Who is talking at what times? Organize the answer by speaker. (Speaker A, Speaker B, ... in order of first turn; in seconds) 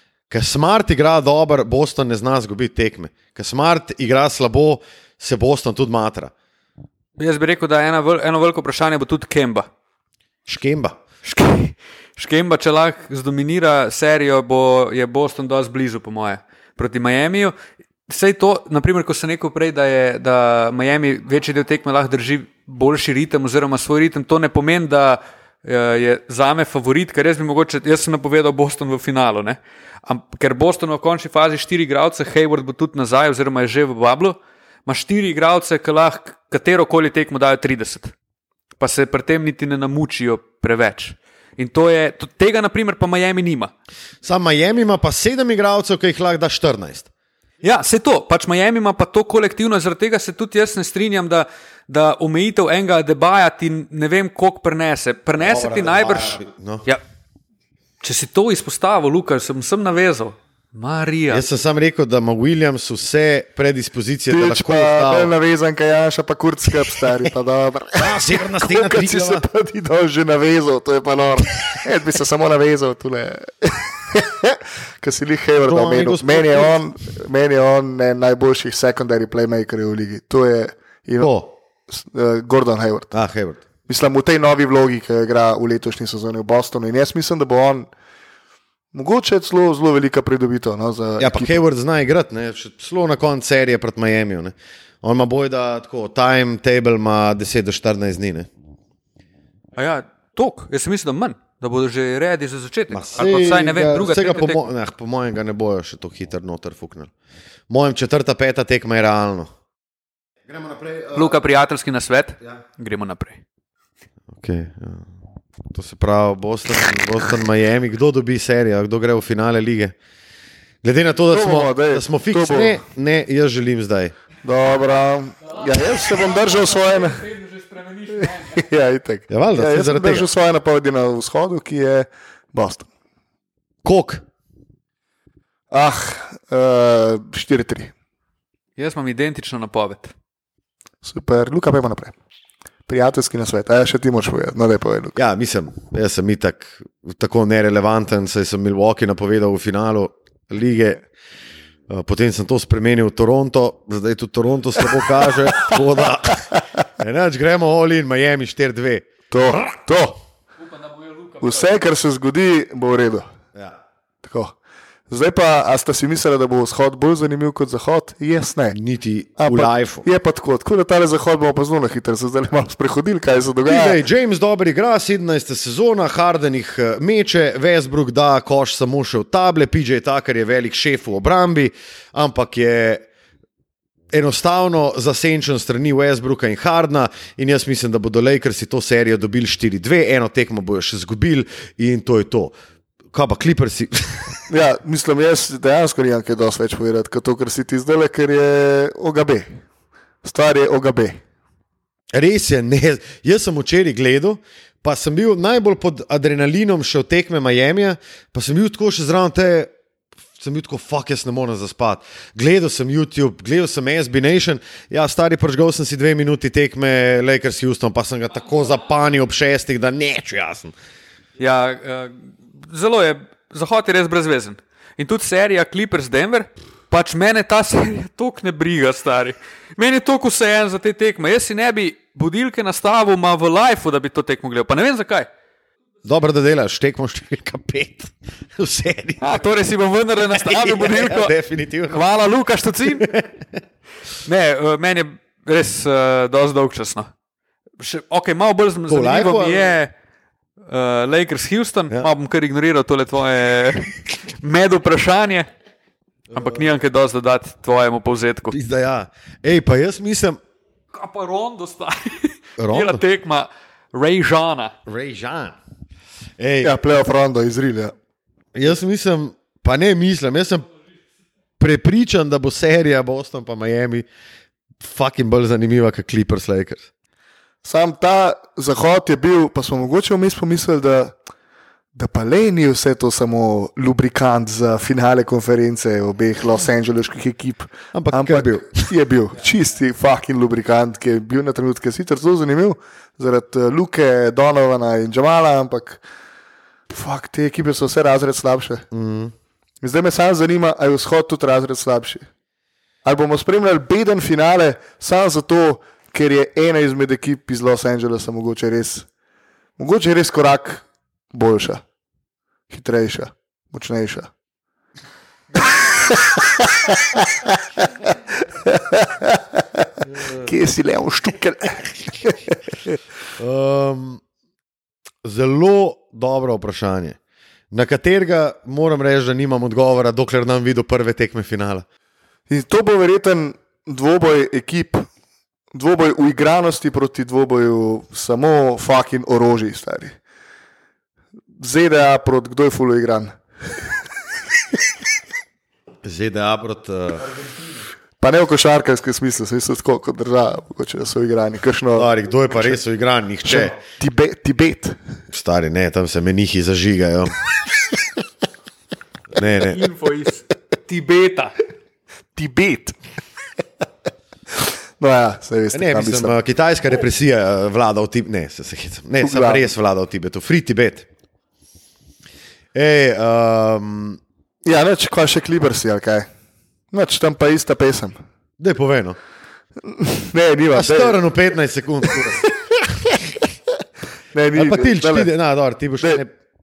Speaker A: 0.3-6.3, 10.5-11.0, 44.2-47.1, 55.4-56.9, 61.3-65.3, 68.0-69.4, 75.6-76.8, 81.2-81.5, 83.1-83.6, 91.2-98.5, 102.9-107.1, 107.7-109.5, 110.5-111.4, 114.3-115.1, 115.7-120.0, 120.8-124.1, 129.3-130.3, 133.8-134.2, 145.2-151.1, 151.9-156.5, 157.0-159.1, 168.7-170.1, 173.6-183.1, 184.1-192.5, 193.1-194.4, 202.1-209.7, 210.4-220.7, 236.1-239.4, 240.3-242.1, 242.8-243.3, 248.9-249.8, 256.3-256.6, 258.5-260.4, 262.6-263.0, 264.9-265.6, 266.4-266.8, 268.6-270.7, 271.6-274.1, 274.8-276.9, 287.9-288.9, 298.9-299.3, 323.4-324.2, 325.2-327.2, 327.7-331.8, 346.0-347.3, 351.9-353.7, 355.3-357.4, 359.3-359.8, 365.7-371.1, 372.7-374.2, 378.6-379.2, 380.7-383.3, 384.5-386.3
Speaker B: 7.2-9.7, 11.2-17.5, 18.1-38.1, 38.8-43.7, 47.6-57.0, 58.0-61.4, 99.8-104.6, 111.1-113.4, 125.7-128.7, 138.8-140.1, 160.6-161.7, 221.4-235.3, 239.2-241.3, 241.9-243.1, 244.2-247.1, 247.8-249.9, 250.7-255.5, 256.3-258.6, 260.9-264.7, 359.5-361.6
Speaker C: 64.3-81.3, 81.9-83.1, 83.9-87.9, 88.9-91.6, 121.3-122.8, 124.4-127.2, 128.3-132.9, 135.7-137.9, 141.0-142.1, 142.9-145.2, 156.3-156.8, 159.3-160.2, 161.4-163.3, 164.2-164.6, 165.1-168.8, 169.4-174.0, 194.5-199.6, 200.2-201.2, 266.6-267.9, 277.6-281.1, 281.9-296.0, 296.9-298.9, 299.8-302.3, 303.1-309.1, 309.8-311.8, 312.7-314.3, 315.7-317.5, 318.0-322.6, 332.5-335.1, 335.7-340.2, 341.6-343.9, 348.2-352.8, 353.4-355.0, 362.3-363.0, 365.0-366.4, 369.2-369.7, 374.6-376.3, 376.9-378.2, 379.8-381.2, 384.3-385.3